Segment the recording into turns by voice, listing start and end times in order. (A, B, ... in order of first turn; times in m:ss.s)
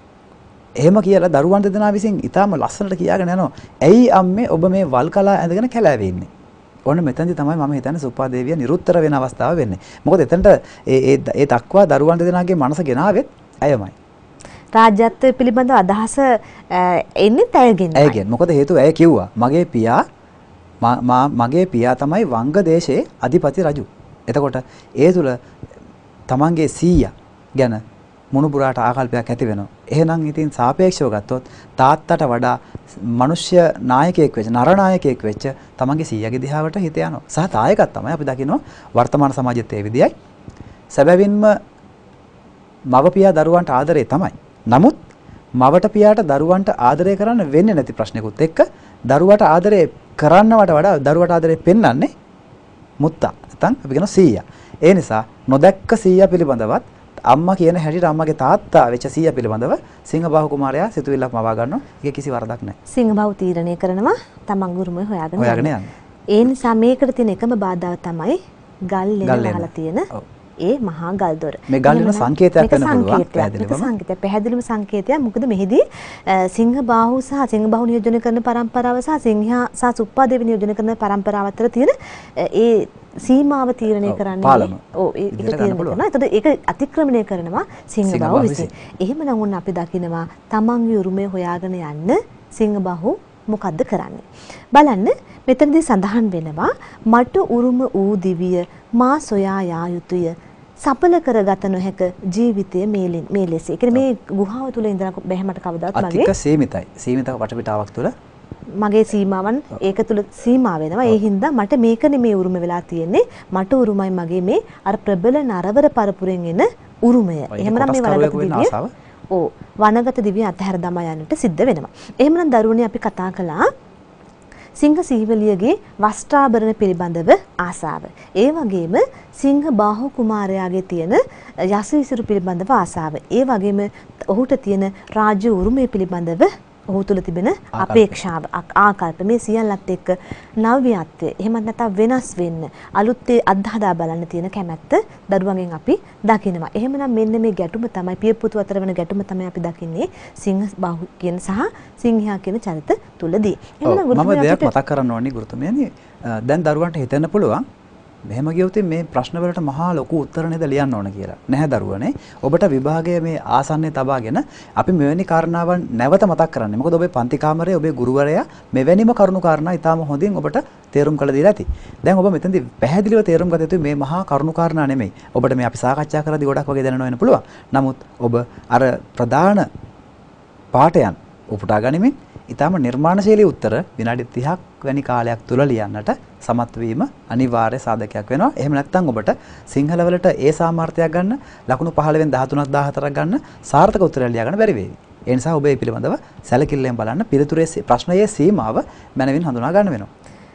0:00.8-0:06.3 A
0:06.9-0:13.9 A
0:14.8-0:18.2 B
0:18.0-0:20.0 A
0:20.8-0:25.4 A
0:26.3-0:27.8 A
0:28.3-0:40.1 A
0:40.9-0:41.6 A
0:42.9-0:45.0 A
0:45.6-0:52.1 A
0:53.0-1:02.8 A
1:02.9-1:05.7 B
1:05.4-1:05.9 A
1:06.3-1:08.4 B
1:08.9-1:46.3 B
1:09.2-1:10.2 A
1:11.7-1:13.9 A
1:24.0-1:24.8 A
1:25.3-1:26.0 A
1:28.0-1:28.7 A
1:45.9-1:48.1 A
1:48.8-1:58.7 B
1:57.5-1:58.9 A
1:59.3-2:03.7 B
2:04.8-2:34.7 B
2:17.7-2:18.2 A
2:33.8-2:37.6 A
2:38.3-2:59.7 A
3:00.7-3:20.1 A